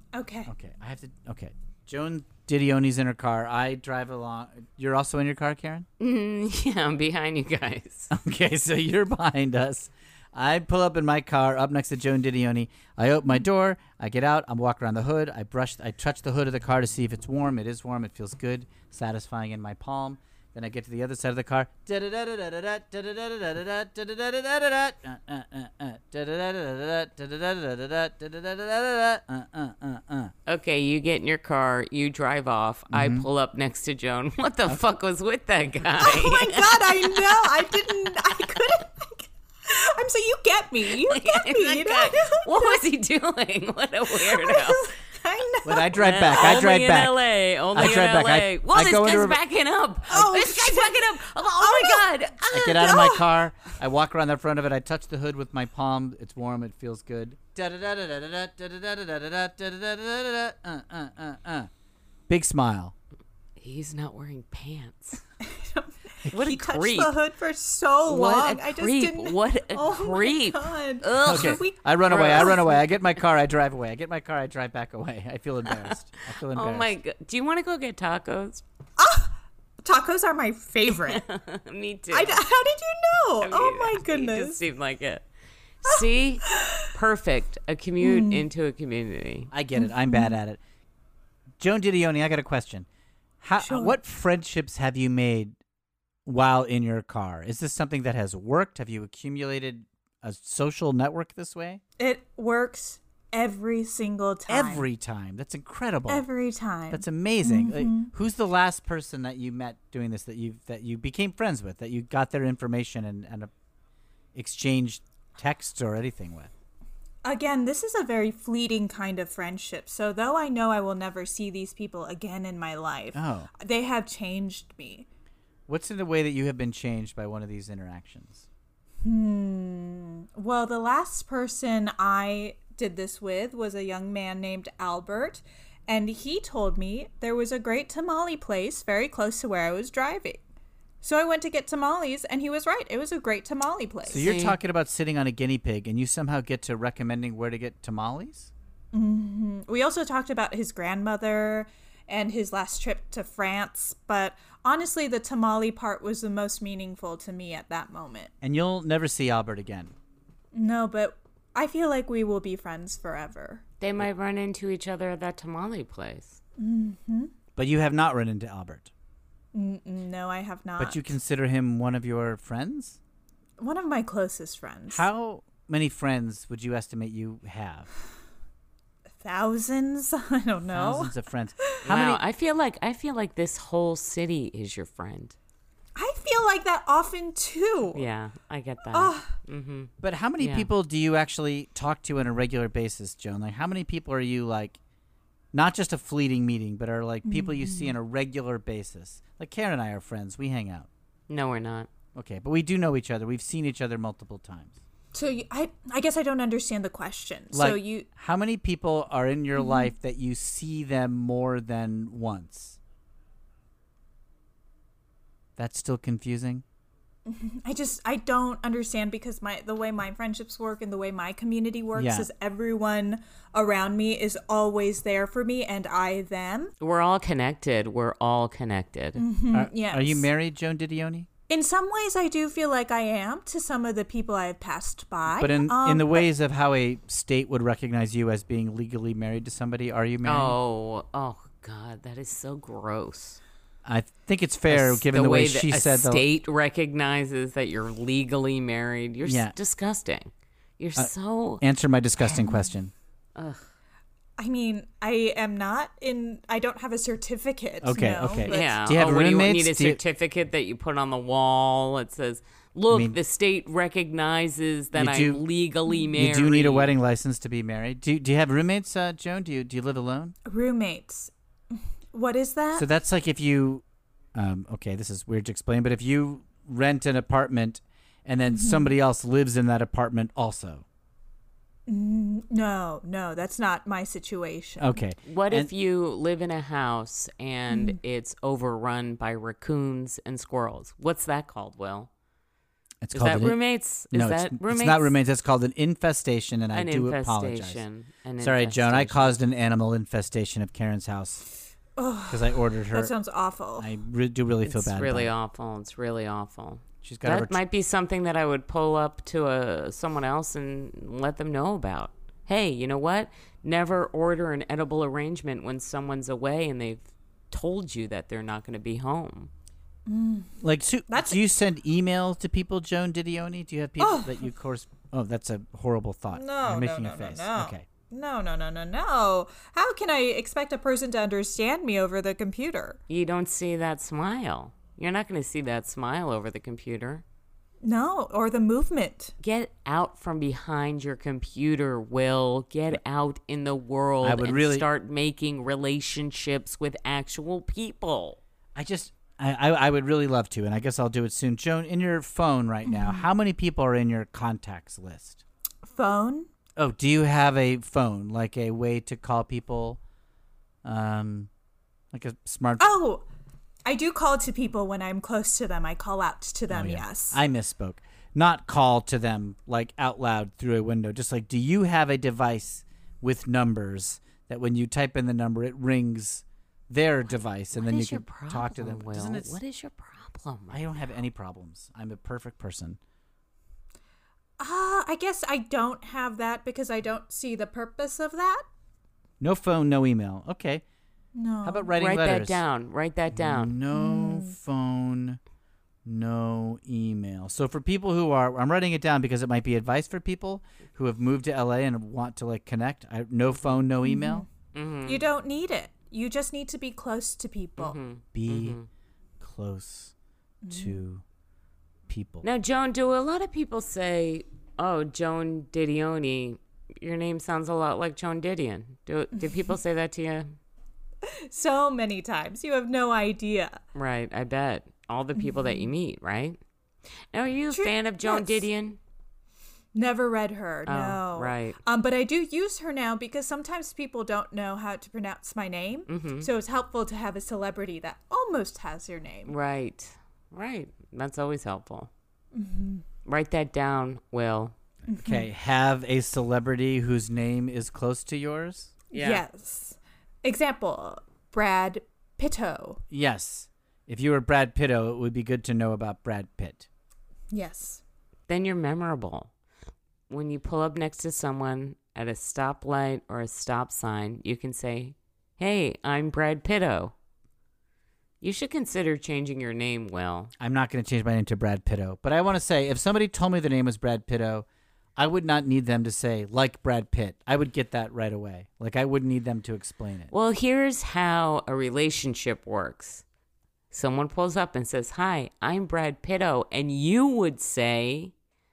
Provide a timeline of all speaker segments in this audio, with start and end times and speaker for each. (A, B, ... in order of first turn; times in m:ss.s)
0:00.1-0:00.5 A
0:00.5-0:05.9 B
0:06.0-0:08.1 C
0:08.1-0:30.3 B
0:30.5-0:37.5 C
0:32.9-0:33.3 B
0:36.0-0:42.8 A
0:40.9-0:44.9 C
0:44.1-0:46.0 A
0:45.6-0:47.2 B
0:46.0-0:52.8 C
0:47.7-0:49.4 B
0:50.1-0:53.3 A
0:52.5-1:01.7 B
1:02.3-1:02.9 B
1:03.6-1:05.2 C
1:05.4-1:12.8 A
1:06.3-1:07.1 C
1:08.1-1:12.6 C
1:11.2-1:17.0 B
1:16.5-1:18.6 C
1:19.0-1:21.2 A
1:21.1-1:22.4 C
1:22.1-1:24.6 A
1:23.4-1:25.3 C
1:25.8-1:29.5 C
1:25.9-1:26.8 A
1:28.0-1:28.5 A
1:29.5-1:30.6 B
1:29.8-1:30.4 A
1:31.6-1:32.9 B
1:33.4-1:35.6 B
1:33.6-1:34.0 A
1:36.2-1:41.8 B
1:42.0-1:44.9 A
1:44.5-1:46.3 B
1:46.1-1:48.1 A
1:46.9-1:53.5 B
1:54.4-1:56.5 B
1:57.2-2:05.1 A
2:03.1-2:03.5 B
2:05.7-2:08.5 B
2:09.0-2:20.4 A
2:21.0-2:24.3 A
2:24.1-2:28.5 B
2:24.2-2:24.6 C
2:28.9-2:38.3 A
2:38.4-2:39.9 B
2:40.5-2:43.6 A
2:43.8-2:46.4 C
2:46.6-2:47.3 A
2:47.6-2:48.9 B
2:49.5-2:51.1 A
2:50.8-2:53.0 B
2:53.6-2:55.1 A
2:54.9-2:57.9 B
2:59.2-3:01.8 A
3:00.7-3:02.2 B
3:01.8-3:05.4 C
3:06.0-3:08.0 A
3:07.9-3:10.7 C
3:08.9-3:09.3 A
3:10.0-3:14.8 B
3:15.5-3:20.9 B
3:17.2-3:18.0 A
3:21.3-3:21.9 C
3:22.2-3:24.8 B
3:25.1-3:28.1 A
3:27.5-3:32.8 B
3:29.6-3:29.9 A
3:35.6-3:36.6 B
3:37.3-3:46.7 A
3:42.0-3:42.3 B
3:46.8-3:49.2 C
3:49.2-3:50.3 A
3:49.5-3:51.3 B
3:51.5-3:56.3 A
3:55.4-4:00.6 B
4:00.2-4:03.4 C
4:03.8-4:06.2 B
4:04.7-4:11.6 C
4:09.2-4:09.5 B
4:11.0-4:12.9 B
4:13.4-4:13.6 C
4:14.4-4:18.8 A
4:17.8-4:20.0 B
4:18.5-4:27.0 C
4:22.9-4:23.2 B
4:24.9-4:25.4 B
4:26.2-4:30.4 B
4:30.5-4:32.9 A
4:32.8-4:33.8 B
4:34.4-4:40.8 B
4:38.5-4:38.9 A
4:41.9-4:45.0 A
4:44.8-4:45.7 B
4:45.2-4:52.1 C
4:47.7-4:48.0 A
4:53.0-4:57.8 B
4:53.1-4:55.1 C
4:56.7-4:59.4 C
4:58.4-5:01.4 B
5:02.0-5:03.9 A
5:02.3-5:03.1 B
5:03.8-5:05.3 B
5:04.6-5:19.5 C
5:07.0-5:07.6 B
5:20.1-5:20.5 A
5:20.6-5:27.8 B
5:21.1-5:21.4 A
5:24.0-5:24.4 A
5:26.3-5:33.0 A
5:33.1-5:37.2 C
5:37.8-5:39.3 A
5:39.4-5:48.4 C
5:44.2-5:44.9 B
5:48.8-5:55.4 B
5:52.8-5:53.3 A
5:55.8-5:56.5 A
5:56.8-6:00.0 B
6:00.8-6:01.5 B
6:02.1-6:02.9 B
6:02.8-6:03.2 A
6:03.8-6:07.4 A
6:06.7-6:19.6 B
6:17.7-6:20.8 C
6:20.7-6:23.0 B
6:24.6-6:28.6 A
6:29.4-6:30.8 B
6:31.4-6:31.9 A
6:31.6-6:32.6 B
6:32.0-6:33.8 C
6:33.3-6:35.4 B
6:33.9-6:34.6 A
6:36.0-6:44.5 B
6:44.0-6:44.5 A
6:44.7-6:45.2 C
6:45.0-6:48.0 A
6:47.8-6:48.9 C
6:48.3-6:48.8 B
6:49.4-6:50.1 B
6:50.6-6:51.0 A
6:50.7-6:51.2 B
6:52.1-6:52.5 B
6:52.4-7:00.6 C
7:01.2-7:03.8 A
7:04.0-7:06.6 C
7:05.4-7:05.9 A
7:07.3-7:09.0 C
7:07.7-7:08.6 A
7:09.9-7:19.5 A
7:10.9-7:11.8 C
7:16.1-7:16.5 C
7:19.5-7:22.1 C
7:22.5-7:23.0 A
7:23.2-7:24.8 C
7:25.1-7:25.5 A
7:25.2-7:28.9 B
7:29.1-7:29.4 C
7:29.1-7:33.0 A
7:33.1-7:36.9 B
7:37.5-7:38.0 A
7:38.5-7:39.5 C
7:40.3-7:47.1 C
7:48.4-7:50.5 C
7:50.6-8:00.3 B
8:00.3-8:03.2 C
8:03.9-8:08.3 C